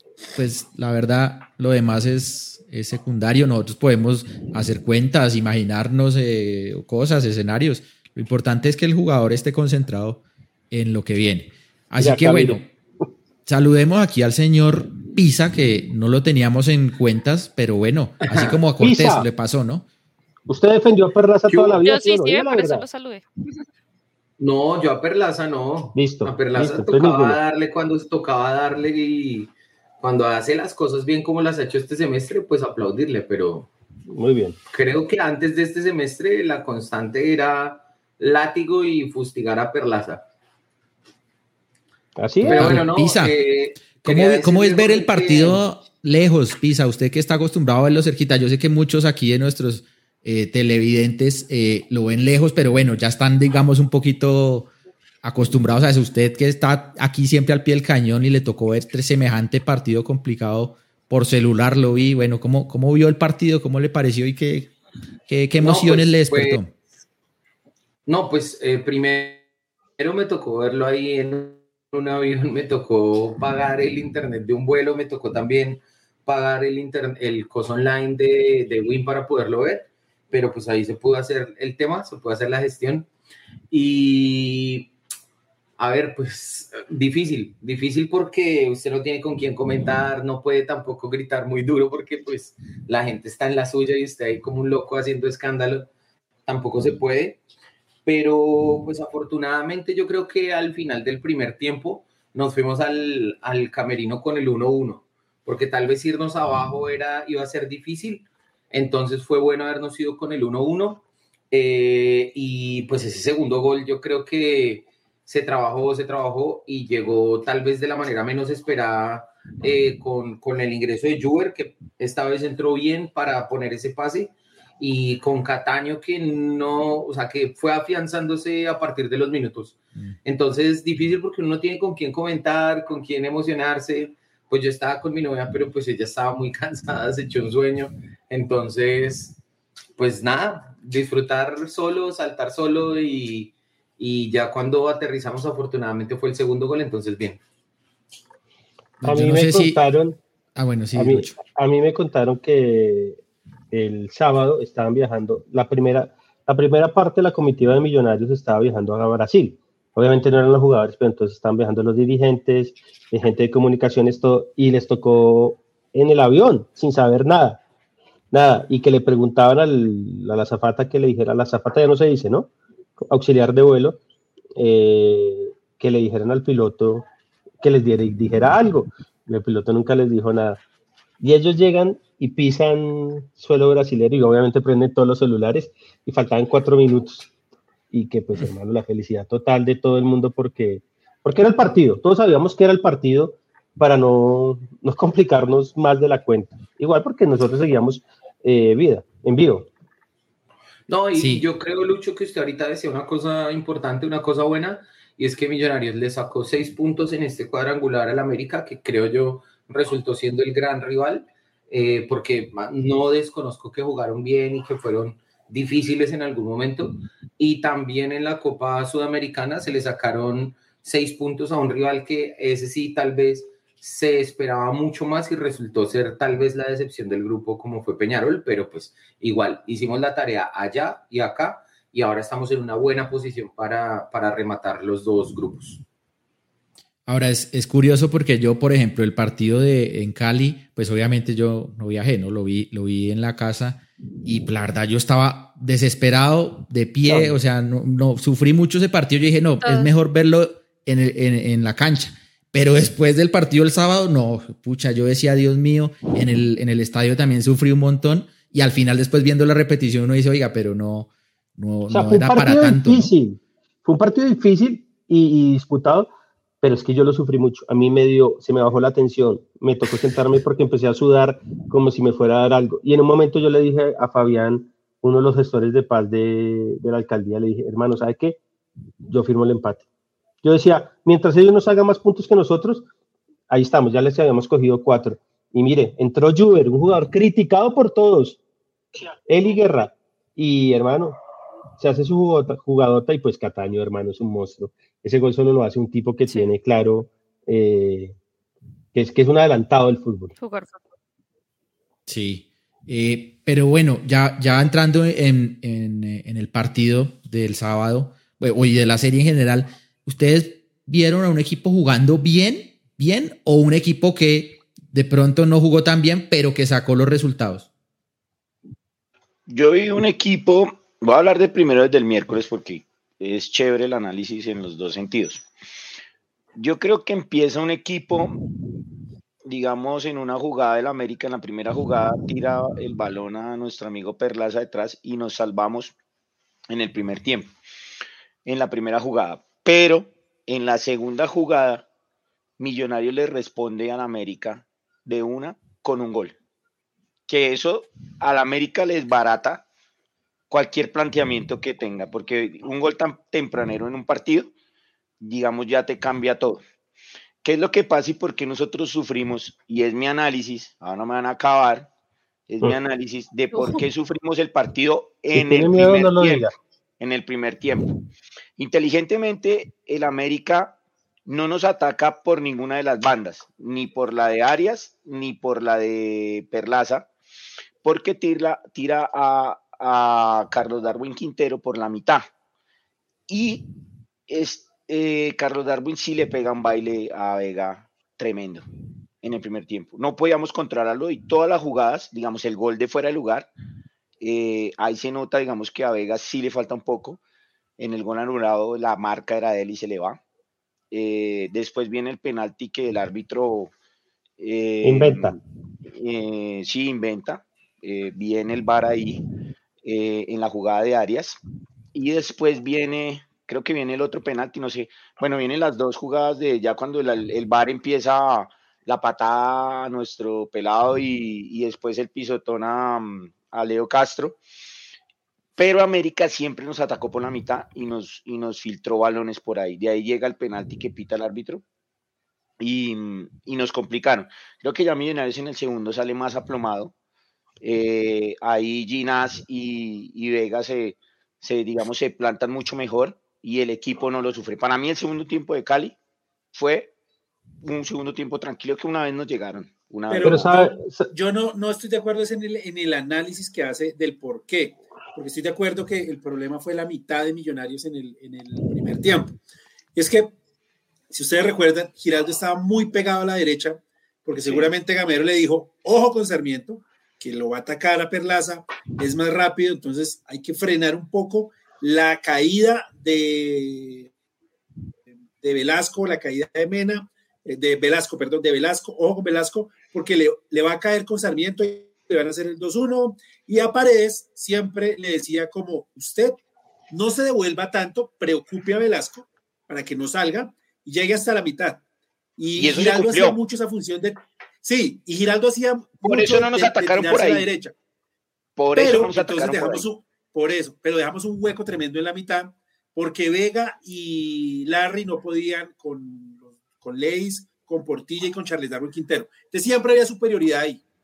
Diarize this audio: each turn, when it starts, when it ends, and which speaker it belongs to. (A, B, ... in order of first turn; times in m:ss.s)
0:00.3-0:12.7 A
0:12.0-0:12.6 B
0:13.5-0:19.9 A
0:18.8-0:19.3 B
0:20.5-0:22.9 B
0:21.5-0:21.8 C
0:21.8-0:23.2 D
0:24.4-0:33.7 C
0:26.0-0:27.4 B
0:34.1-0:34.6 B
0:34.7-0:40.2 C
0:42.2-0:42.8 B
0:42.4-0:45.6 C
0:42.4-0:54.7 A
0:55.2-1:04.7 A
1:05.3-1:06.7 A
1:05.6-1:06.6 C
1:08.1-1:09.4 C
1:10.0-1:23.1 C
1:23.7-1:24.9 C
1:25.8-1:35.9 C
1:36.5-1:37.4 C
1:38.0-2:19.4 C
2:20.0-2:27.4 C
2:29.0-2:29.8 A
2:29.0-2:30.2 B
2:30.6-2:31.4 A
2:30.9-2:33.2 B
2:33.7-2:47.6 B
2:48.3-2:54.0 B
2:54.6-2:57.1 B
2:57.6-3:00.6 B
3:01.2-3:07.3 B
3:07.9-3:19.7 B
3:20.9-3:55.8 C
3:21.2-3:21.5 A
3:57.1-4:23.1 A
4:07.0-4:07.4 B
4:09.6-4:09.9 D
4:21.9-4:26.1 B
4:26.6-4:38.4 B
4:39.0-4:39.8 B
4:40.4-4:42.9 B
4:43.5-4:48.4 B
4:49.3-4:51.2 B
4:51.8-4:58.2 B
4:56.3-4:56.5 D
4:58.9-5:00.3 B
5:00.4-5:00.9 D
5:02.1-5:17.7 A
5:19.5-5:25.4 E
5:26.6-5:28.4 E
5:29.4-5:36.0 E
5:36.7-5:37.5 E
5:38.5-5:41.9 E
5:42.6-5:46.4 E
5:47.3-5:49.6 E
5:50.5-5:54.5 E
5:55.2-5:56.6 E
5:57.4-6:01.9 E
6:02.5-6:06.5 E
6:03.5-6:03.8 D
6:05.4-6:06.5 B
6:07.0-6:07.9 E
6:08.6-6:17.1 E
6:17.8-6:22.3 E
6:23.3-6:23.7 E
6:24.3-6:28.7 E
6:29.2-6:33.5 E
6:34.2-6:37.2 E
6:37.8-6:40.2 E
6:40.9-6:43.7 E
6:44.4-6:45.4 E
6:44.8-6:45.4 B
6:45.9-6:49.2 E
6:49.8-6:51.4 E
6:51.9-7:04.4 E
7:05.6-7:11.6 E
7:12.6-7:16.9 E
7:17.6-7:26.0 E
7:26.5-7:26.9 E
7:27.6-7:30.6 E
7:30.1-7:39.4 F
7:30.2-7:31.1 B
7:40.0-7:40.3 F
7:41.1-7:54.1 F
7:44.4-7:44.7 E
7:55.4-8:11.8 F
8:12.4-8:17.8 F
8:12.6-8:13.4 E
8:16.0-8:17.5 E
8:18.6-8:19.9 E
8:18.8-8:30.8 F